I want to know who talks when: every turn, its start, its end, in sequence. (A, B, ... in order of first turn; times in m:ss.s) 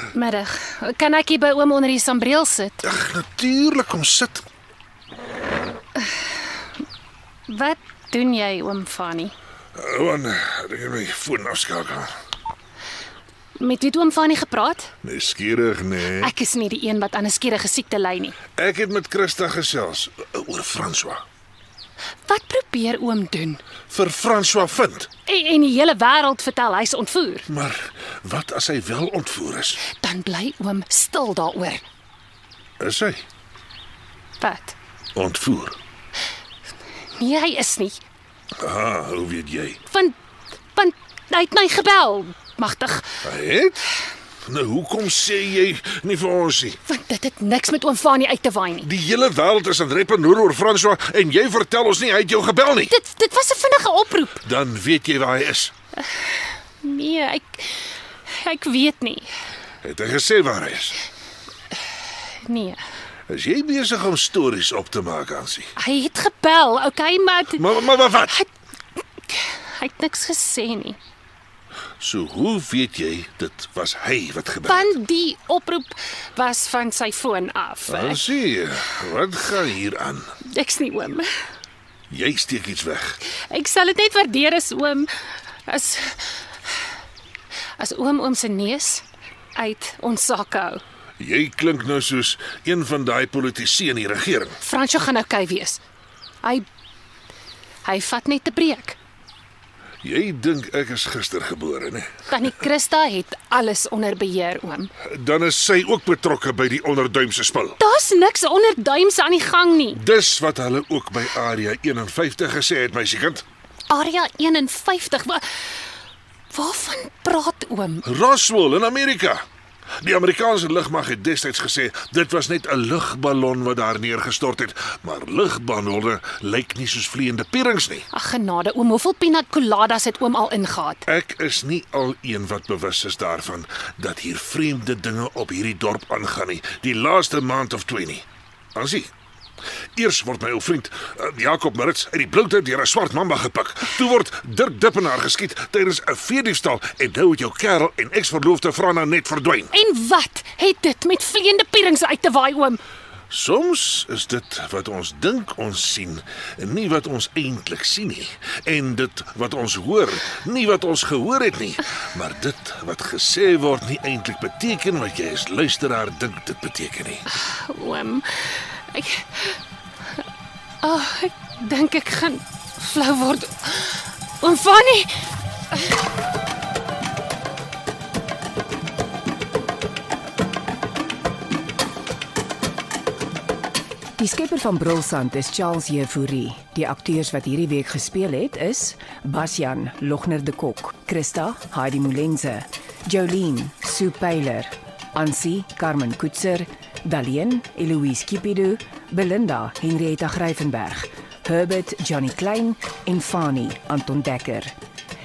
0:00.1-0:02.8 A
0:02.9-0:04.4 B
0:07.5-0:09.3 A
0:09.8-0:12.1 B
0:13.6-0:14.9 A
0:15.0-0:16.3 B
0:16.2-0:18.4 A
0:18.6-0:21.2 B
0:22.3-0:23.6 A
0:23.9-0:25.1 B
0:25.3-0:27.5 A
0:27.5-0:29.8 B
0:29.8-0:31.8 A
0:32.8-0:33.2 B
0:34.4-0:34.8 A
0:35.2-0:35.8 B
0:37.2-0:38.0 A
0:38.6-0:39.8 B
0:39.9-0:40.1 A
0:40.8-0:43.0 A
0:43.2-0:43.8 B
0:44.5-0:46.8 B
0:46.9-0:48.9 A
0:48.8-0:52.9 B
0:52.9-0:54.4 A
0:54.4-0:55.7 B
0:56.8-0:57.8 A
0:58.3-0:59.3 A
0:59.8-1:00.9 B
1:02.4-1:02.8 A
1:03.3-1:05.7 B
1:05.8-1:08.5 A
1:07.6-1:08.3 B
1:09.3-1:11.0 A
1:12.0-1:14.8 B
1:14.7-1:18.2 A
1:17.9-1:20.2 B
1:20.5-1:21.3 A
1:22.1-1:23.1 B
1:23.5-1:25.1 A
1:25.7-1:26.3 A
1:27.8-1:29.0 A
1:29.6-1:30.8 A
1:31.2-1:34.5 B
1:34.6-1:35.8 A
1:37.8-1:39.0 A
1:40.0-1:42.1 B
1:42.3-1:44.9 A
1:45.2-1:47.7 B
1:47.8-1:50.0 A
1:50.0-1:53.4 B
1:53.9-1:55.4 A
1:56.5-1:58.0 A
1:58.1-1:59.4 B
2:00.0-2:08.0 B
2:08.1-2:11.0 A
2:11.1-2:18.2 B
2:18.8-2:19.1 B
2:20.0-2:29.7 B
2:29.7-2:32.8 A
2:33.3-2:47.2 B
2:47.3-2:49.5 A
2:50.8-2:55.1 A
3:04.2-3:24.8 C